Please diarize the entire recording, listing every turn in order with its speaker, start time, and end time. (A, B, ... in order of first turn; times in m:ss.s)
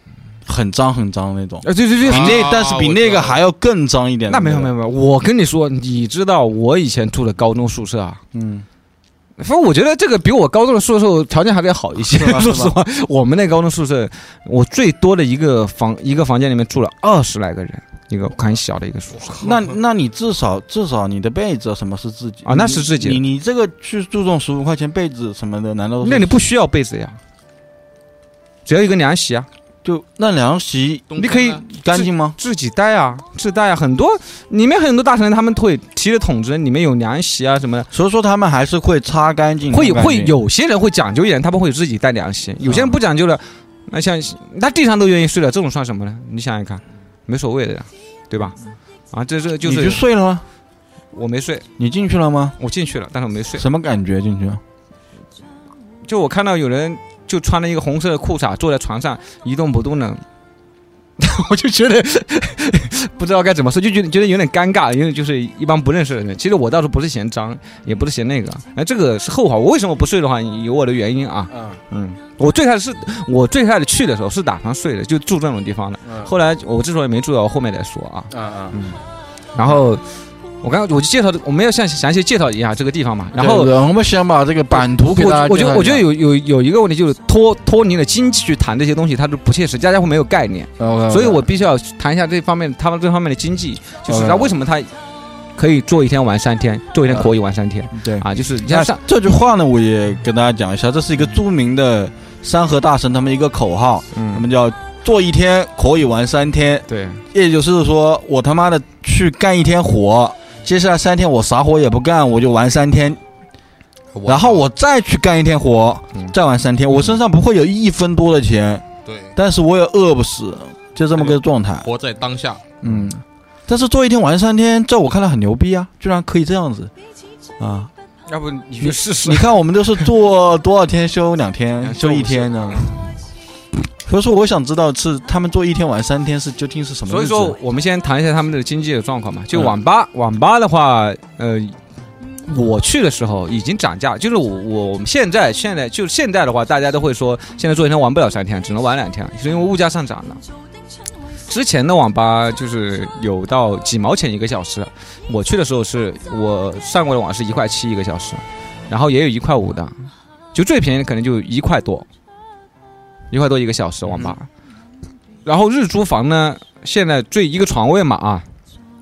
0:00.4-0:04.7 A
0:01.6-0:02.4 B
0:02.0-0:03.4 C
0:04.3-0:08.2 B
0:08.3-0:08.6 A
0:09.4-0:19.3 B
0:12.0-0:12.7 A
0:19.1-0:19.7 C
0:19.4-0:26.3 A
0:22.4-0:23.2 B
0:26.0-0:27.2 B
0:28.6-0:29.5 B
0:29.8-0:32.4 A
0:31.1-0:31.6 C
0:31.2-0:37.9 B
0:37.9-0:40.3 A
0:39.7-0:48.6 B
0:42.6-0:43.0 A
0:49.1-0:50.0 B
0:49.6-0:50.4 A
0:51.1-0:51.6 B
0:51.8-0:52.6 A
0:52.6-0:53.6 B
0:53.6-0:54.6 A
0:56.0-1:00.2 B
1:01.2-1:19.0 B
1:11.5-1:11.8 A
1:16.0-1:16.3 A
1:18.3-1:18.8 A
1:19.5-1:20.0 B
1:20.6-1:23.7 B
1:23.3-1:26.1 A
1:24.7-1:34.9 B
1:30.8-1:31.5 A
1:34.1-1:34.5 A
1:35.6-1:39.0 B
1:37.1-1:37.3 A
1:37.9-1:53.2 A
1:44.1-1:44.4 B
1:46.9-1:47.2 B
1:54.1-1:54.6 C
1:54.2-1:58.8 A
1:59.0-1:59.4 C
1:59.4-2:01.9 A
2:01.1-2:02.7 C
2:02.8-2:06.9 A
2:02.8-2:03.1 B
2:07.6-2:07.9 A
2:08.3-2:10.1 B
2:08.8-2:12.9 A
2:11.8-2:13.0 B
2:14.0-2:17.6 A
2:17.1-2:21.8 B
2:22.4-2:30.4 B
2:31.5-2:39.9 B
2:40.5-2:42.0 B
2:43.3-2:44.4 B
2:44.0-2:44.4 A
2:45.4-2:48.4 B